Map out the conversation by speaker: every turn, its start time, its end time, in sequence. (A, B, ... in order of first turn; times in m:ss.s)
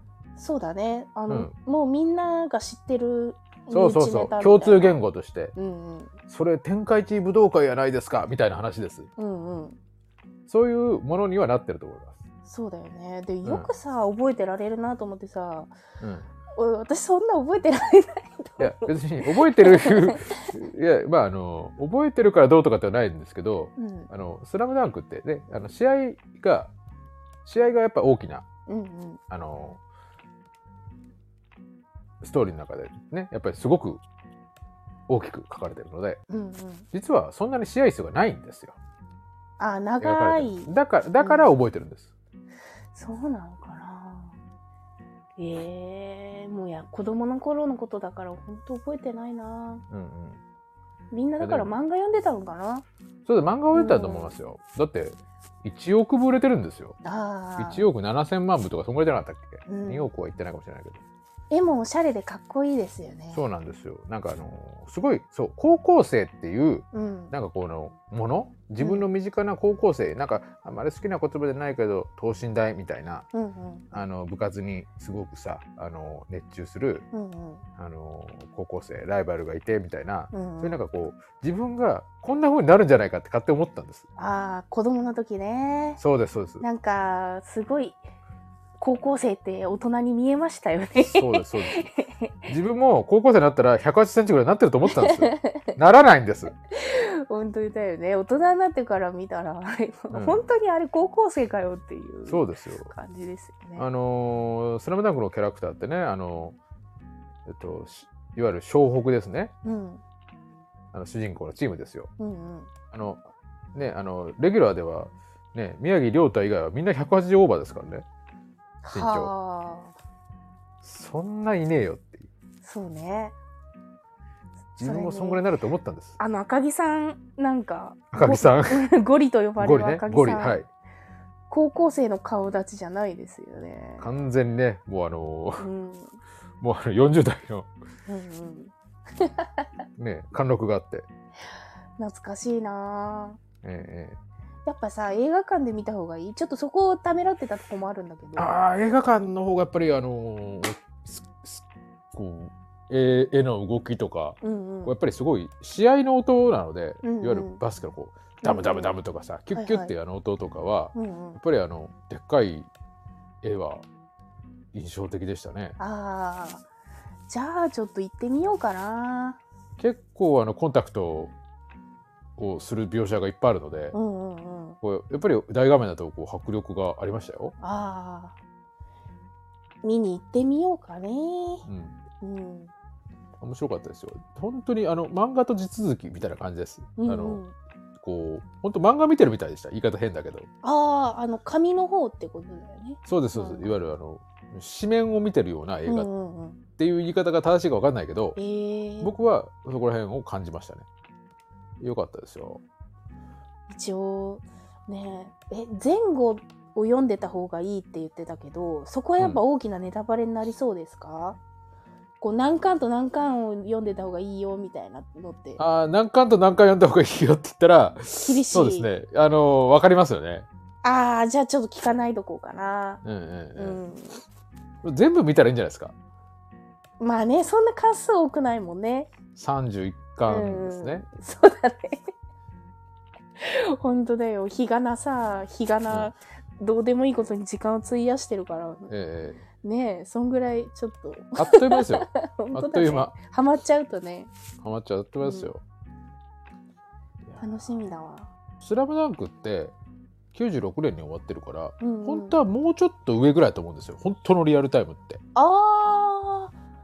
0:00.4-0:05.0 A
0:03.7-0:05.5 B
0:05.5-0:06.1 A
0:06.3-0:09.1 B
0:09.2-0:09.8 A
0:10.5-0:12.2 B
0:12.4-0:15.7 A
0:13.4-0:13.7 B
0:16.0-0:16.3 B
0:16.5-0:20.5 A
0:18.6-0:26.7 B
0:23.8-0:24.1 A
0:27.4-0:28.4 B
0:28.7-0:29.2 A
0:29.3-0:29.8 B
0:32.2-0:34.0 B
0:35.1-0:36.2 B
0:36.3-0:36.9 A
0:36.9-0:38.8 B
0:39.6-0:41.5 A
0:40.0-0:42.1 B
0:42.9-0:44.3 A
0:45.4-0:49.8 A
0:49.9-0:50.4 B
0:51.1-0:52.8 A
0:51.4-0:51.7 B
0:53.2-0:57.0 B
0:53.7-0:54.4 A
0:57.0-0:57.9 A
0:57.6-1:01.0 B
0:59.7-1:00.1 A
1:01.5-1:03.4 A
1:03.3-1:13.3 B
1:06.9-1:07.3 A
1:08.8-1:09.1 A
1:13.3-1:14.0 A
1:13.9-1:17.1 B
1:17.1-1:17.6 A
1:17.8-1:24.1 B
1:20.3-1:20.8 A
1:24.2-1:26.0 A
1:26.0-1:26.6 B
1:26.6-1:28.0 A
1:28.8-1:32.5 A
1:31.0-1:31.9 B
1:32.5-1:36.5 B
1:34.8-1:35.7 A
1:36.7-1:43.8 A
1:40.1-1:40.4 B
1:42.3-1:42.9 B
1:43.8-1:46.6 B
1:47.4-1:49.5 B
1:49.6-1:50.0 A
1:50.9-1:52.1 B
1:52.2-1:52.7 A
1:52.9-1:53.2 B
1:53.7-1:58.0 B
1:58.8-1:59.9 A
1:58.9-1:59.3 B
2:00.8-2:02.3 B
2:02.6-2:03.3 A
2:04.8-2:06.2 B
2:04.8-2:05.4 A
2:06.2-2:10.6 A
2:08.1-2:08.9 B
2:09.6-2:10.7 B
2:11.5-2:14.1 A
2:14.0-2:15.7 B
2:15.6-2:16.2 A
2:16.6-2:17.7 B
2:18.1-2:19.7 A
2:20.0-2:21.1 B
2:22.0-2:23.4 A
2:23.6-2:24.2 B
2:24.6-2:28.5 A
2:28.4-2:42.7 B
2:34.4-2:34.9 A
2:37.0-2:37.6 A
2:38.4-2:39.0 A
2:39.5-2:39.9 A
2:40.9-2:41.4 A
2:43.4-2:43.8 B
2:44.7-2:45.8 B
2:45.8-2:46.6 A
2:47.3-2:49.4 A
2:49.8-2:51.3 B
2:52.4-2:54.0 B
2:53.9-2:54.8 A
2:54.8-2:57.5 B
2:57.6-2:58.4 A
2:59.8-3:01.6 A
3:01.6-3:02.0 B
3:02.2-3:02.7 A
3:03.4-3:07.4 B
3:07.0-3:07.5 A
3:08.0-3:10.5 B
3:10.6-3:13.7 A
3:13.0-3:16.1 B
3:15.8-3:16.6 A
3:16.8-3:18.4 B
3:18.4-3:19.1 A
3:19.0-3:20.8 B
3:21.8-3:22.6 B
3:23.7-3:31.4 A
3:32.2-3:35.6 A
3:35.6-3:40.5 B
3:38.2-3:38.9 A
3:40.8-3:43.0 A
3:43.0-3:43.8 B
3:43.5-3:44.2 A
3:44.8-3:45.9 B
3:47.0-3:49.1 A
3:49.3-3:51.0 B
3:50.3-3:52.0 A
3:53.4-3:58.9 A
3:58.9-3:59.4 B
3:59.6-4:04.3 A
4:01.4-4:03.1 B
4:04.6-4:05.6 B
4:05.2-4:05.5 A
4:07.2-4:07.8 B
4:07.4-4:08.3 A
4:08.6-4:09.7 B
4:10.3-4:15.2 B
4:11.8-4:12.4 A
4:15.3-4:16.5 A